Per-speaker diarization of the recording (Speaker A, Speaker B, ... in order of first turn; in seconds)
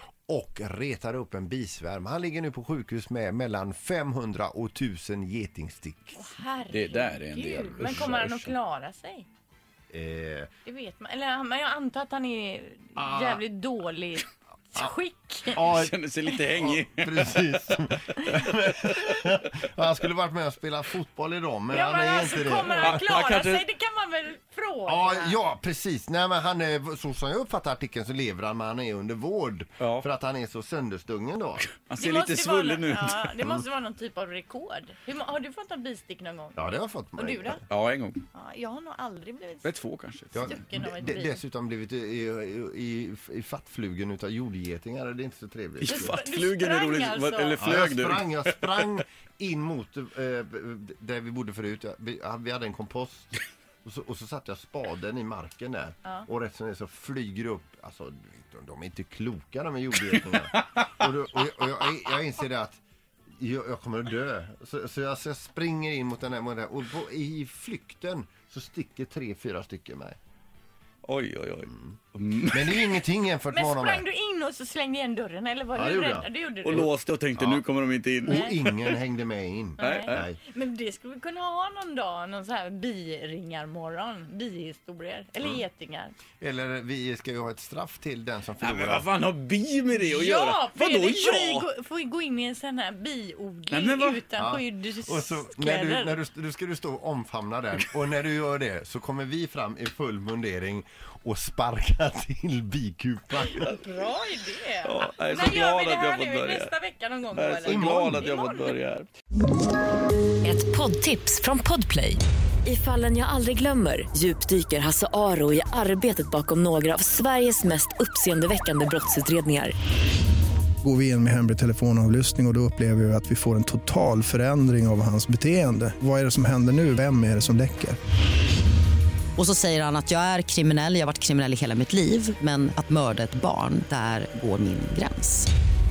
Speaker A: 0.3-6.2, 9.9-10.5, 13.0-13.4, 15.5-15.9, 16.5-23.0, 24.9-31.7, 36.6-37.6, 40.3-46.1, 47.6-62.8, 63.4-70.2, 72.5-74.0, 75.7-76.9, 78.2-80.4, 86.4-89.0, 94.4-103.7, 107.7-108.2
Speaker B: 6.1-9.2, 10.7-15.8, 21.7-25.4, 32.0-36.6, 37.2-37.6, 38.3-39.7, 40.4-41.4, 45.8-47.6, 73.5-76.9, 78.3-78.5, 79.8-86.1, 89.9-96.2, 103.5-108.8
Speaker C: 6.7-8.5, 15.5-19.7, 22.8-23.6, 31.9-33.6, 37.7-38.2, 39.6-40.6, 45.8-49.0, 71.0-73.0, 76.6-78.9, 79.8-80.2, 88.6-91.7, 93.7-94.2, 104.8-106.7, 107.3-109.1
Speaker D: 110.4-119.7
Speaker E: 120.8-128.0
Speaker F: 129.4-135.5